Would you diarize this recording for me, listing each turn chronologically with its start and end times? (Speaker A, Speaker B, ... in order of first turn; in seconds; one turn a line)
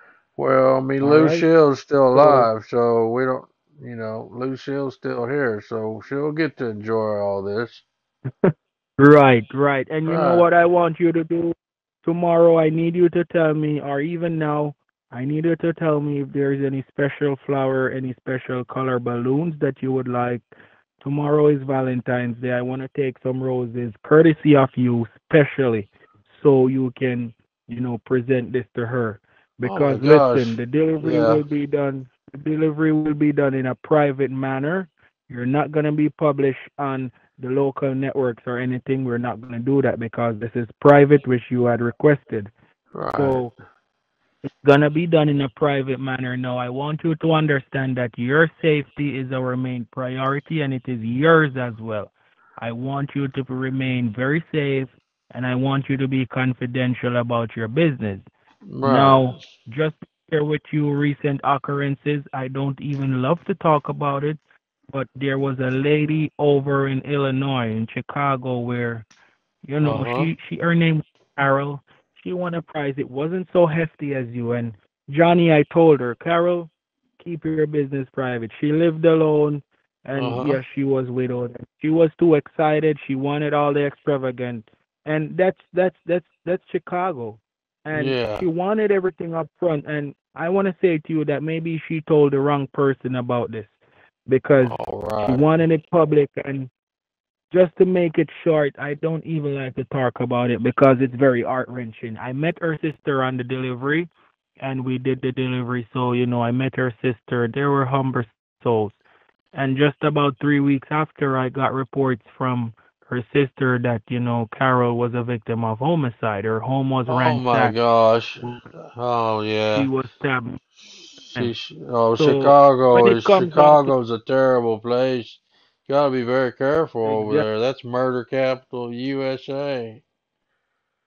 Speaker A: 0.4-7.8
Speaker B: 1.0-1.4
Speaker B: 2.1-2.5
Speaker B: 8.4-20.4
Speaker A: 10.1-10.4
Speaker B: 21.0-42.5
Speaker A: 29.6-31.4
Speaker A: 42.9-43.5
Speaker B: 43.1-43.5
Speaker B: 44.6-58.2
Speaker A: 58.6-59.4
Speaker B: 58.8-64.4
Speaker B: 64.9-69.1
Speaker B: 69.7-93.7
Speaker A: 69.8-70.3
Speaker A: 80.2-80.6
Speaker A: 87.9-88.4
Speaker B: 94.3-96.7
Speaker A: 94.7-95.4
Speaker B: 97.5-104.1
Speaker B: 104.6-109.0
Speaker B: 109.5-117.7
Speaker A: 117.1-119.9
Speaker B: 118.4-118.7
Speaker B: 119.7-120.6
Speaker A: 121.3-130.0
Speaker B: 122.2-123.9
Speaker B: 127.0-127.5